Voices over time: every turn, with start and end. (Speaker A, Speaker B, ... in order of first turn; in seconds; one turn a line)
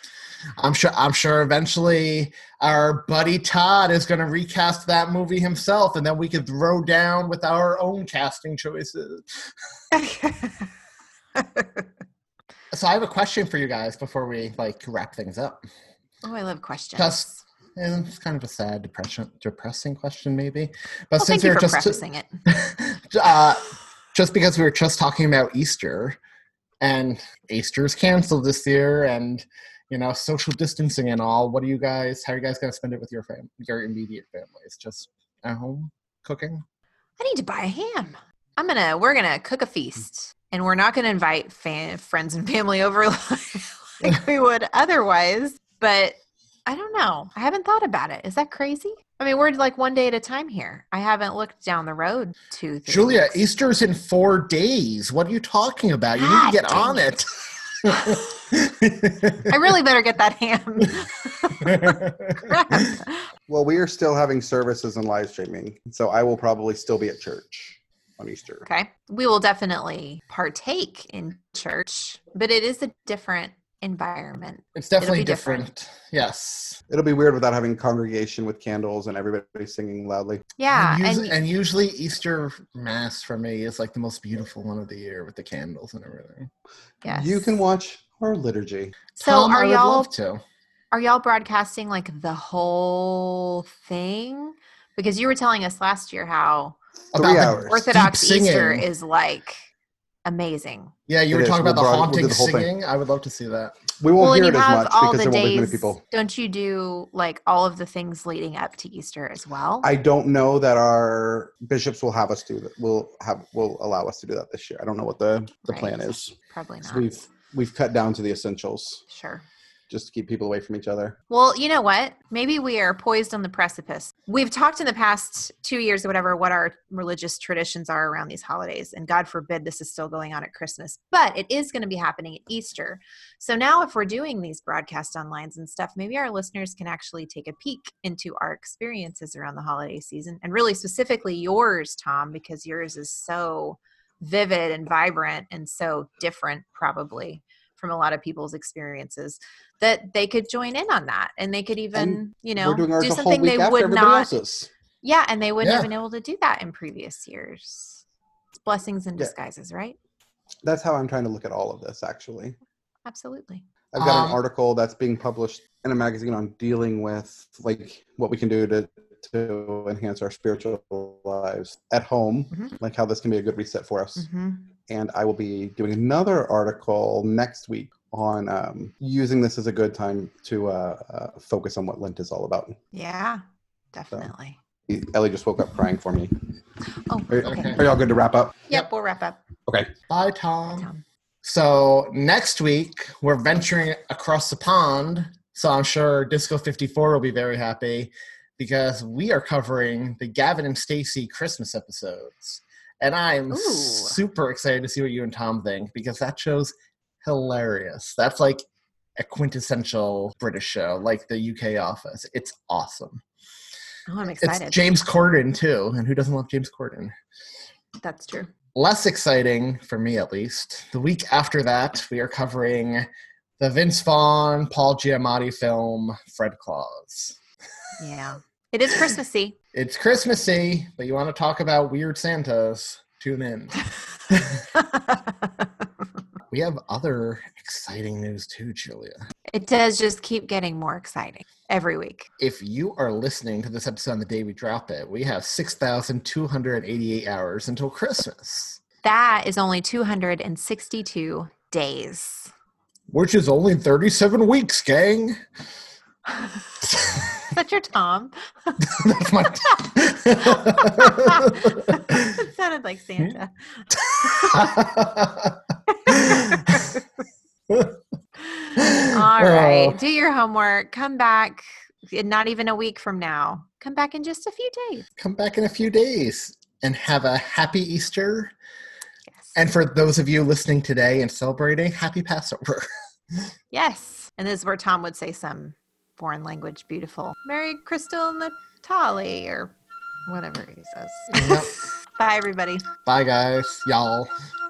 Speaker A: 0.6-9.4
Speaker B: 9.9-10.7
Speaker B: 11.4-11.8
Speaker A: 12.7-15.7
Speaker B: 16.2-17.4
Speaker A: 17.0-26.2
Speaker B: 21.2-22.3
Speaker A: 26.8-36.6
Speaker B: 37.2-53.4
Speaker A: 52.9-57.3
Speaker B: 56.2-57.1
Speaker A: 57.8-59.5
Speaker B: 57.9-58.2
Speaker B: 59.5-63.2
Speaker A: 61.6-62.8
Speaker C: 63.5-68.7
Speaker B: 68.7-75.7
Speaker A: 74.8-76.8
Speaker C: 76.9-80.5
Speaker B: 80.6-81.4
Speaker A: 80.7-86.5
Speaker B: 87.0-87.5
Speaker C: 87.0-89.0
Speaker B: 89.2-90.1
Speaker A: 89.2-90.4
Speaker B: 90.9-96.8
Speaker C: 97.1-97.8
Speaker A: 97.1-98.9
Speaker B: 97.4-99.6
Speaker B: 100.2-100.9
Speaker A: 101.1-103.8
Speaker C: 101.3-102.7
Speaker C: 104.0-106.0
Speaker B: 104.2-109.9
Speaker C: 109.8-119.0
Speaker B: 115.7-117.2
Speaker B: 119.1-119.4
Speaker C: 119.9-121.2
Speaker B: 121.3-154.3
Speaker C: 151.9-154.7
Speaker B: 155.0-158.0
Speaker A: 155.6-155.9
Speaker B: 158.6-160.0
Speaker C: 160.6-162.6
Speaker B: 163.1-163.6
Speaker C: 163.9-174.3
Speaker A: 164.0-164.4
Speaker B: 174.2-174.6
Speaker C: 174.9-182.8
Speaker B: 182.9-183.4
Speaker B: 183.9-184.6
Speaker C: 184.9-186.3
Speaker B: 187.1-187.8
Speaker C: 187.3-188.6
Speaker A: 187.4-187.8
Speaker B: 188.7-189.4
Speaker A: 190.1-190.9
Speaker B: 190.8-191.0
Speaker A: 191.4-208.7
Speaker B: 203.5-204.2
Speaker A: 209.2-213.2
Speaker B: 214.1-214.8
Speaker A: 214.4-217.2
Speaker B: 218.0-218.5
Speaker A: 218.8-223.1
Speaker A: 223.6-227.4
Speaker B: 228.0-229.6
Speaker A: 229.7-233.8
Speaker A: 234.3-234.6
Speaker A: 236.5-239.2
Speaker B: 239.5-242.3
Speaker A: 242.4-248.8
Speaker B: 249.0-252.5
Speaker A: 253.1-255.4
Speaker B: 257.5-259.0
Speaker A: 258.8-262.3
Speaker B: 260.4-264.9
Speaker A: 264.2-265.6
Speaker B: 265.9-267.0
Speaker A: 266.1-266.7
Speaker A: 267.7-267.9
Speaker B: 268.5-275.1
Speaker A: 268.8-270.0
Speaker A: 275.2-278.5
Speaker A: 279.6-282.9
Speaker B: 283.7-289.7
Speaker B: 290.3-292.9
Speaker A: 291.3-291.7
Speaker A: 293.1-294.3